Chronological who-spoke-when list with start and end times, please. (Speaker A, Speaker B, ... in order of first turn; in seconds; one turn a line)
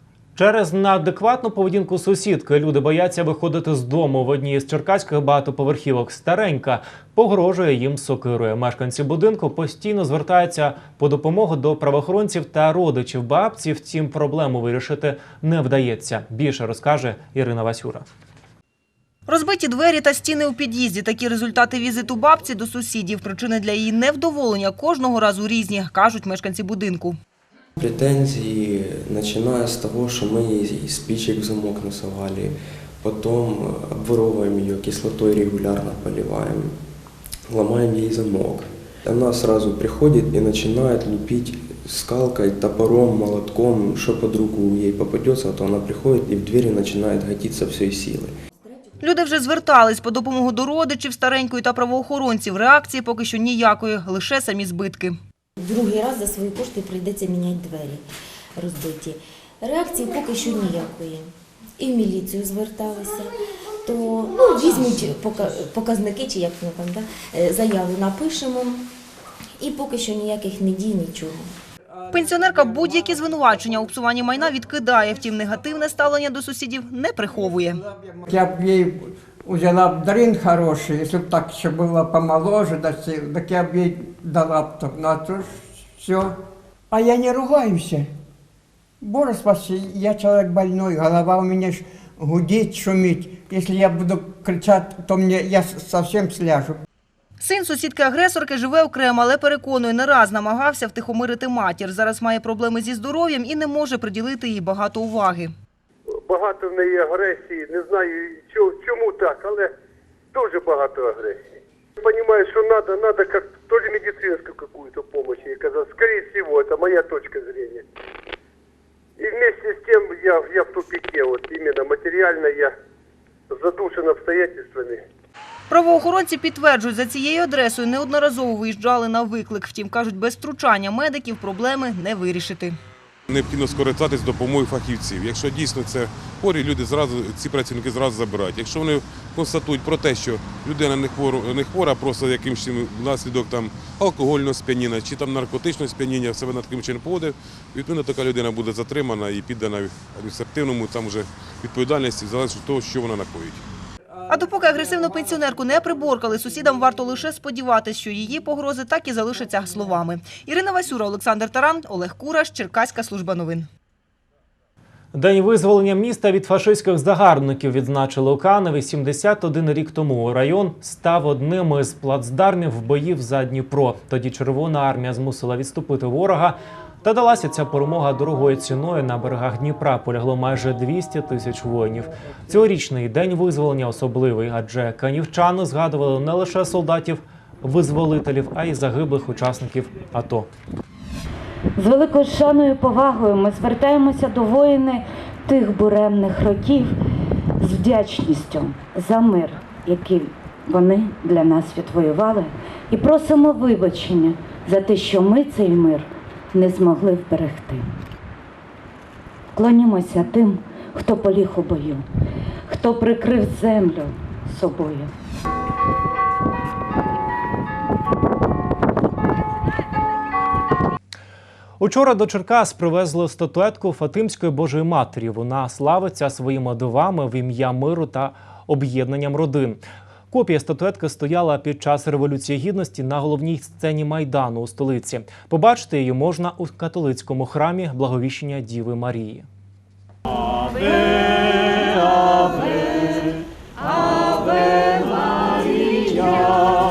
Speaker A: 0.3-18.1
Speaker B: 19.3-27.1
Speaker C: 27.8-36.8
Speaker C: 37.5-48.4
Speaker B: 49.0-55.1
Speaker D: 55.6-58.0
Speaker D: 58.6-68.9
Speaker D: 69.6-71.5
Speaker B: 72.1-77.8
Speaker E: 78.2-86.3
Speaker E: 86.9-88.1
Speaker E: 89.0-96.8
Speaker B: 97.4-105.5
Speaker F: 106.1-109.7
Speaker F: 110.3-117.8
Speaker F: 119.2-122.8
Speaker F: 123.5-125.0
Speaker B: 125.7-132.8
Speaker G: 133.3-153.6
Speaker B: 154.3-163.7
Speaker A: 165.1-190.5
Speaker H: 191.8-196.9
Speaker H: 197.6-207.8
Speaker H: 209.5-212.1
Speaker H: 212.7-215.1
Speaker A: 221.8-239.4